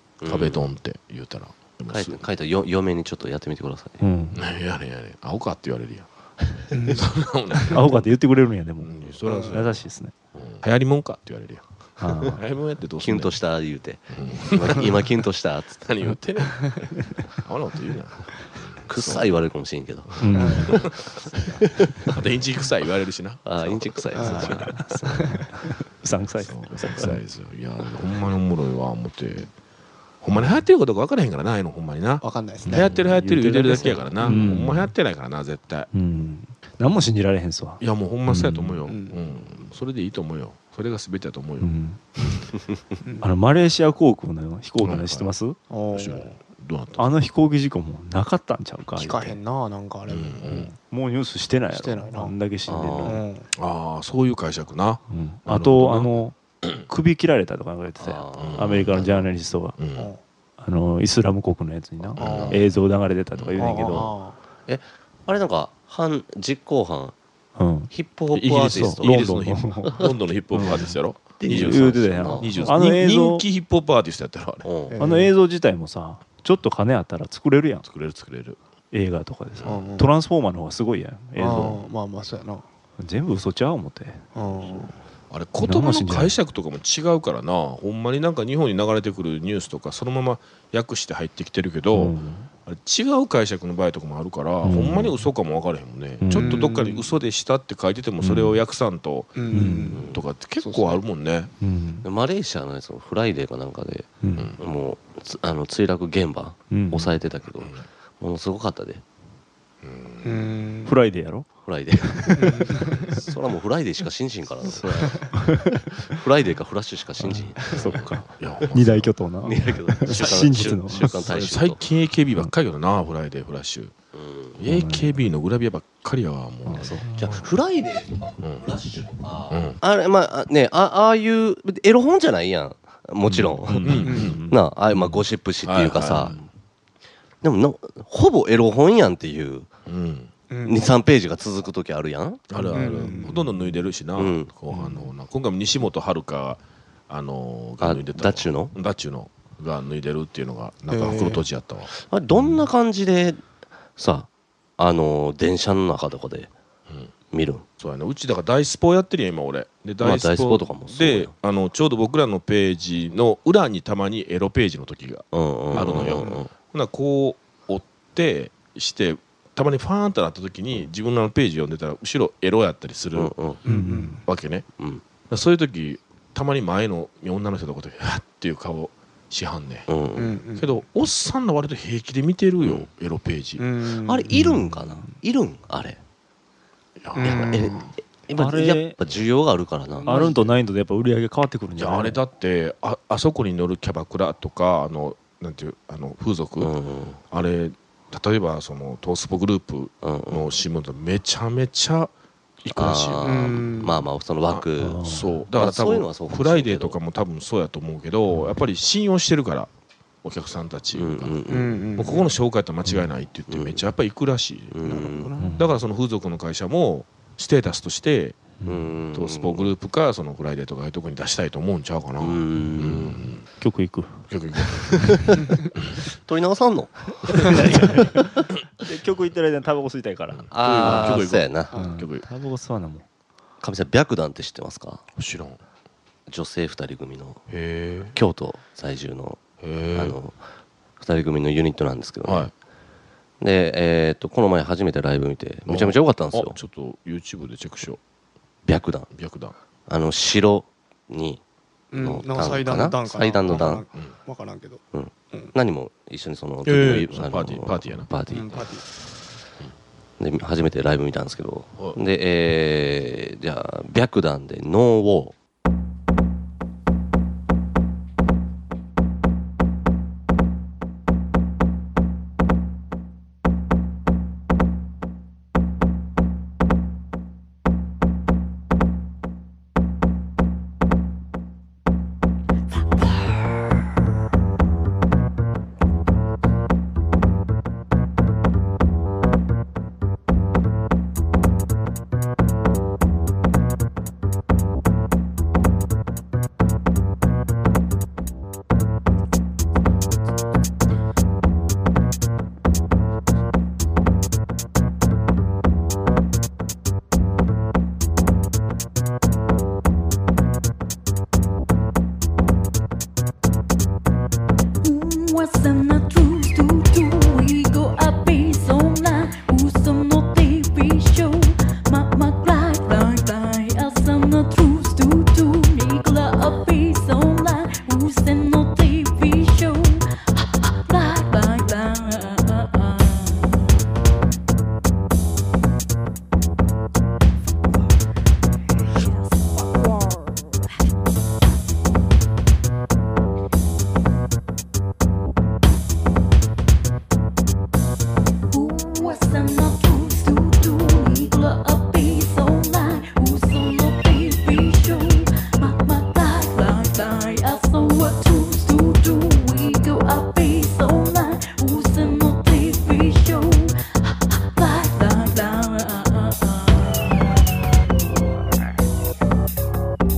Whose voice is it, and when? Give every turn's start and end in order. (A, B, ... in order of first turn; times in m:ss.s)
0:00.2-0:00.6 A
0:00.2-0:02.2 B
0:01.9-0:04.0 A
0:04.0-0:04.4 C
0:04.3-0:06.1 B
0:06.7-0:07.7 D
0:06.9-0:08.1 B
0:07.7-0:09.0 C
0:08.8-0:09.8 B
0:09.2-0:09.6 D
0:09.5-0:10.1 C
0:10.3-0:11.6 B
0:12.0-0:12.4 C
0:12.2-0:13.4 B
0:13.0-0:15.8 A
0:14.1-0:15.2 B
0:15.8-0:19.3 B
0:17.0-0:17.2 C
0:18.9-0:20.8 A
0:20.1-0:25.0 B
0:20.2-0:20.8 C
0:20.3-0:20.8 D
0:21.6-0:22.2 A
0:23.4-0:25.2 A
0:24.1-0:25.4 D
0:24.3-0:27.2 C
0:26.4-0:29.5 B
0:30.2-0:35.9 B
0:32.2-0:33.0 D
0:32.6-0:34.9 C
0:35.9-0:38.8 C
0:37.8-0:42.5 B
0:38.8-0:39.3 D
0:41.6-0:42.0 C
0:43.2-0:45.6 C
0:44.8-0:45.3 B
0:45.7-0:46.3 D
0:45.9-0:47.3 B
0:47.0-0:49.4 C
0:49.0-0:50.7 D
0:50.1-0:50.7 B
0:50.5-0:53.2 C
0:51.7-0:52.3 D
0:52.7-0:53.2 A
0:53.0-0:53.5 D
0:53.5-0:56.7 B
0:55.1-0:56.4 C
0:56.9-0:59.8 C
0:58.0-0:59.0 A
0:58.4-1:00.1 B
1:00.6-1:04.1 C
1:02.0-1:02.7 B
1:02.2-1:02.6 A
1:03.3-1:04.0 B
1:03.6-1:04.4 D
1:04.7-1:07.2 A
1:07.6-1:07.9 C
1:07.9-1:09.1 A
1:08.3-1:14.7 B
1:08.6-1:13.4 C
1:11.4-1:12.8 A
1:14.6-1:15.0 A
1:14.9-1:15.3 D
1:15.0-1:17.8 C
1:17.8-1:18.6 B
1:18.9-1:21.8 C
1:19.5-1:19.8 B
1:19.6-1:20.1 D
1:21.4-1:22.6 D
1:23.0-1:24.2 C
1:24.3-1:24.9 D
1:25.3-1:39.4 B
1:25.6-1:26.3 C
1:31.9-1:32.5 C
1:34.6-1:35.2 C
1:36.2-1:36.6 C
1:36.3-1:37.1 D
1:38.2-1:38.6 C
1:39.4-1:41.0 D
1:39.5-1:40.0 C
1:39.9-1:40.2 A
1:40.0-1:41.5 B
1:41.6-1:42.1 C
1:42.0-1:49.0 A
1:44.2-1:44.5 C
1:44.4-1:44.6 B
1:46.7-1:47.1 C
1:47.6-1:47.8 B
1:49.8-1:50.5 B
1:50.2-1:50.9 D
1:50.8-1:52.7 C
1:51.6-1:55.5 A
1:52.4-1:53.0 D
1:55.0-1:55.3 D
1:55.3-1:56.2 C
1:56.1-1:57.8 A
1:57.2-2:01.4 C
1:57.7-1:59.1 B
1:59.4-2:01.8 A
2:00.0-2:03.9 B
2:04.1-2:04.6 A
2:04.6-2:07.5 B
2:04.6-2:05.2 C
2:06.6-2:07.4 C
2:07.0-2:16.3 A
2:08.4-2:08.7 B
2:09.5-2:09.8 B
2:13.2-2:15.2 C
2:13.8-2:14.4 B
2:14.0-2:14.4 D
2:15.6-2:16.4 B
2:17.4-2:19.7 A
2:19.8-2:20.3 B
2:20.5-2:20.9 D
2:20.6-2:22.6 A
2:22.5-2:31.9 B
2:22.7-2:23.5 D
2:22.7-2:23.4 C
2:24.2-2:24.5 A
2:27.8-2:28.7 A
2:30.9-2:31.4 D
2:31.9-2:33.4 A
2:32.4-2:32.6 C
2:34.0-2:36.5 A
2:37.3-2:37.6 A
2:37.8-2:53.3 B
2:40.0-2:41.3 A
2:45.3-2:46.5 A
2:45.7-2:46.3 D
2:53.1-2:53.6 A
2:53.6-2:54.2 D
2:53.6-2:54.2 C
2:54.2-2:54.6 B
2:54.8-2:55.0 A
2:55.3-2:59.9 B
2:59.9-3:00.3 A
3:00.2-3:00.7 D
3:00.5-3:03.7 B
3:02.6-3:02.9 A
3:03.6-3:04.3 D
3:04.0-3:06.0 A
3:04.3-3:05.2 C
3:07.0-3:07.6 B
3:07.1-3:07.9 D
3:07.2-3:10.3 A
3:08.3-3:09.0 C
3:09.9-3:10.5 D
3:10.1-3:12.2 C
3:11.8-3:16.7 B
3:16.6-3:17.2 A
3:17.3-3:22.1 B
3:20.0-3:20.5 A
3:22.6-3:23.6 B
3:22.7-3:27.0 A
3:23.2-3:24.0 D
3:24.5-3:29.7 B
3:24.8-3:25.4 C
3:30.2-3:34.8 B
3:30.9-3:31.9 A
3:31.5-3:32.2 D
3:33.5-3:33.8 A
3:34.7-3:35.4 A
3:34.8-3:35.6 D
3:35.4-3:35.7 C
3:35.6-3:38.4 B
3:38.6-3:38.9 C
3:38.6-3:39.7 A
3:39.1-3:43.4 B
3:42.2-3:43.3 A
3:43.6-3:44.3 C
3:44.3-3:45.2 B
3:44.9-3:48.2 A
3:45.0-3:45.3 C
3:47.3-3:53.0 C
3:50.3-3:52.2 B
3:50.5-3:51.7 A
3:53.6-3:55.0 A
3:55.2-3:55.6 B
3:56.3-3:57.4 A
3:57.5-3:58.2 B
3:58.1-4:00.4 A
3:59.6-4:00.2 B
4:01.0-4:02.5 A
4:02.2-4:02.5 B
4:03.4-4:06.6 A
4:05.7-4:08.0 B
4:08.6-4:09.1 A
4:09.1-4:09.5 B
4:09.9-4:11.4 A
4:11.9-4:15.5 D
4:11.9-4:13.8 A
4:13.5-4:14.1 B
4:14.9-4:18.8 A
4:16.6-4:18.1 B
4:18.3-4:18.8 D
4:20.2-4:25.3 A
5:14.8-5:33.6 E
5:48.5-6:07.3 E